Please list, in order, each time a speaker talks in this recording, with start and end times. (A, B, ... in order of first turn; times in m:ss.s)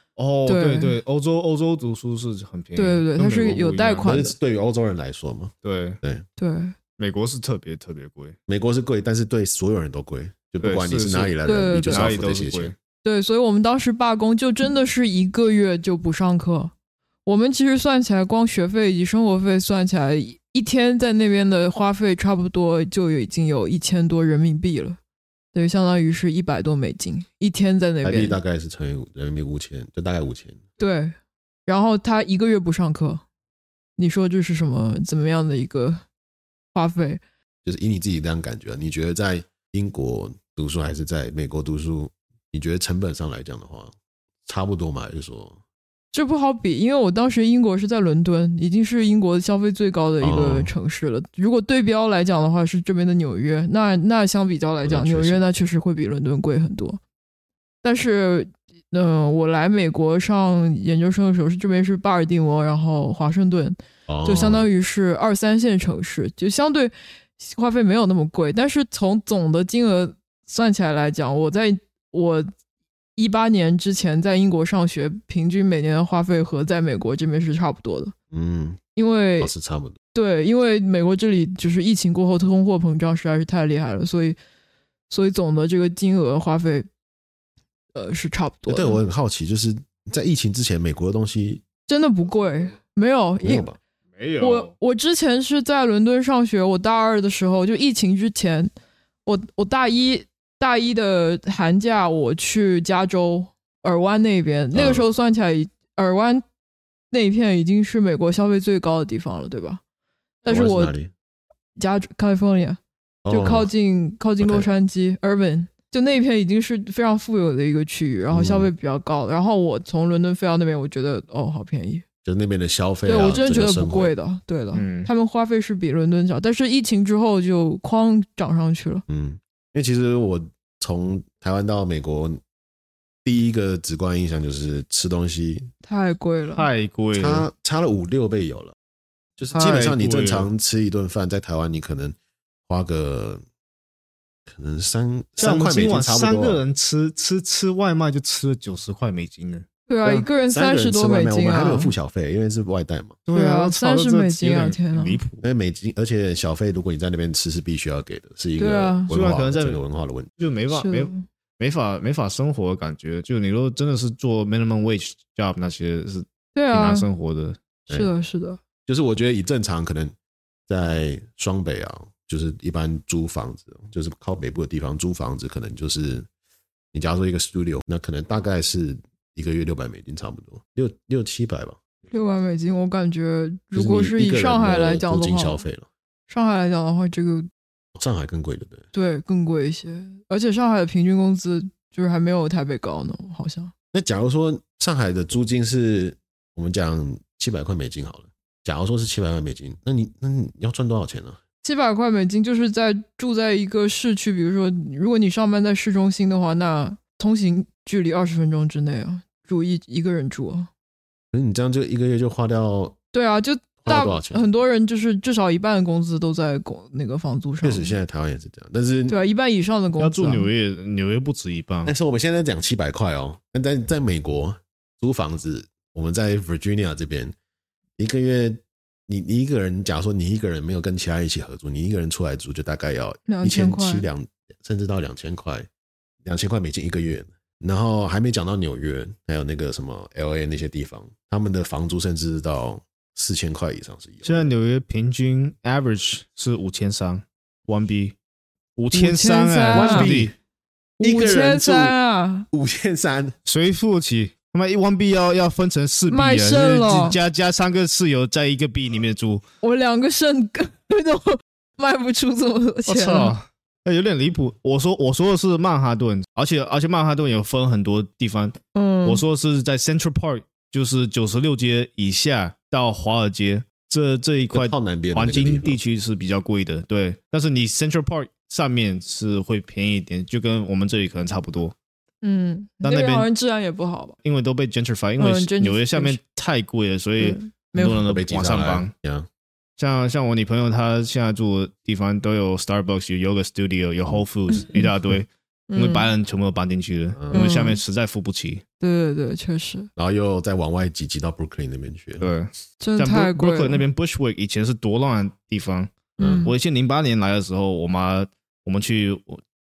0:00.2-0:04.1 A
0:00.4-0:01.0 B
0:02.7-0:04.3 B
0:04.0-0:06.2 C
0:05.6-0:06.0 A
0:06.4-0:06.8 B
0:07.0-0:08.4 A
0:08.5-0:12.7 C
0:10.6-0:12.7 A
0:11.4-0:12.1 B
0:13.0-0:16.7 B
0:17.2-0:25.0 B
0:25.5-0:28.4 B
0:28.0-0:30.6 C
0:30.8-0:33.2 B
0:34.0-0:36.0 B
0:36.7-0:37.2 B
0:37.6-0:43.9 C
0:44.4-0:45.6 C
0:46.1-0:57.0 B
0:50.2-0:50.7 C
0:54.8-0:55.4 C
0:57.8-1:12.5 B
1:04.1-1:04.7 C
1:13.2-1:18.1 B
1:18.3-1:18.8 C
1:19.0-1:19.5 B
1:19.4-1:20.0 C
1:20.1-1:24.4 B
1:25.1-1:26.9 B
1:27.9-1:29.0 B
1:28.7-1:31.6 C
1:31.9-1:33.7 B
1:33.4-1:33.8 C
1:34.2-1:34.7 A
1:34.4-1:38.7 B
1:39.2-1:46.4 B
1:44.7-1:45.0 C
1:47.1-1:49.8 B
1:50.4-1:50.9 B
1:50.4-1:51.1 C
1:51.8-2:02.0 B
1:53.2-1:53.7 C
1:54.4-1:54.7 C
1:58.3-1:58.7 C
2:02.2-2:04.1 C
2:03.0-2:09.0 B
2:04.7-2:05.1 A
2:09.1-2:12.4 C
2:13.2-2:15.7 C
2:15.8-2:16.6 B
2:16.5-2:17.4 A
2:17.1-2:18.7 C
2:19.4-2:22.2 C
2:19.5-2:20.5 A
2:22.7-2:23.4 C
2:24.5-2:26.6 C
2:25.4-2:29.6 A
2:29.9-2:31.9 B
2:30.0-2:33.2 C
2:33.3-2:35.4 A
2:33.3-2:35.2 B
2:35.4-2:40.3 C
2:38.6-2:39.1 B
2:39.1-2:39.8 A
2:40.4-2:47.6 A
2:40.7-2:41.2 B
2:46.5-2:47.1 B
2:47.9-2:48.6 B
2:48.8-2:50.1 C
2:50.7-2:56.3 C
2:56.9-3:01.8 C
3:02.1-3:05.6 B
3:03.7-3:05.9 C
3:06.3-3:07.5 B
3:08.0-3:08.8 C
3:08.9-3:13.7 B
3:13.9-3:21.4 C
3:21.6-3:30.7 B
3:31.3-3:33.0 C
3:33.1-3:38.0 B
3:33.8-3:34.5 C
3:37.6-3:39.2 C
3:39.1-3:40.5 B
3:40.0-3:41.9 A
3:41.8-3:47.3 C
3:48.0-3:55.7 C
3:53.3-3:54.1 B
3:56.2-4:04.5 C
4:04.2-4:08.2 A
4:08.8-4:10.3 A
4:08.9-4:10.1 B
4:09.7-4:10.3 C
4:11.0-4:11.9 C
4:11.0-4:12.5 B
4:12.5-4:13.4 C
4:13.4-4:19.4 A
4:16.1-4:17.2 B
4:19.6-4:23.3 B
4:22.8-4:41.7 A
4:28.7-4:29.2 B
4:34.5-4:35.8 C
4:42.2-4:44.2 B
4:42.8-4:43.3 A
4:44.2-4:48.9 A
4:45.2-4:46.2 B
4:47.2-4:48.0 B
4:48.0-4:49.3 C
4:49.8-4:58.6 A
4:54.5-4:54.8 B
4:55.7-4:56.1 B
4:57.2-4:57.5 C
4:57.3-4:57.8 B
4:58.8-4:59.9 B
5:00.0-5:02.3 C
5:02.2-5:09.4 A
5:02.8-5:03.8 B
5:06.2-5:06.5 B
5:06.2-5:06.5 C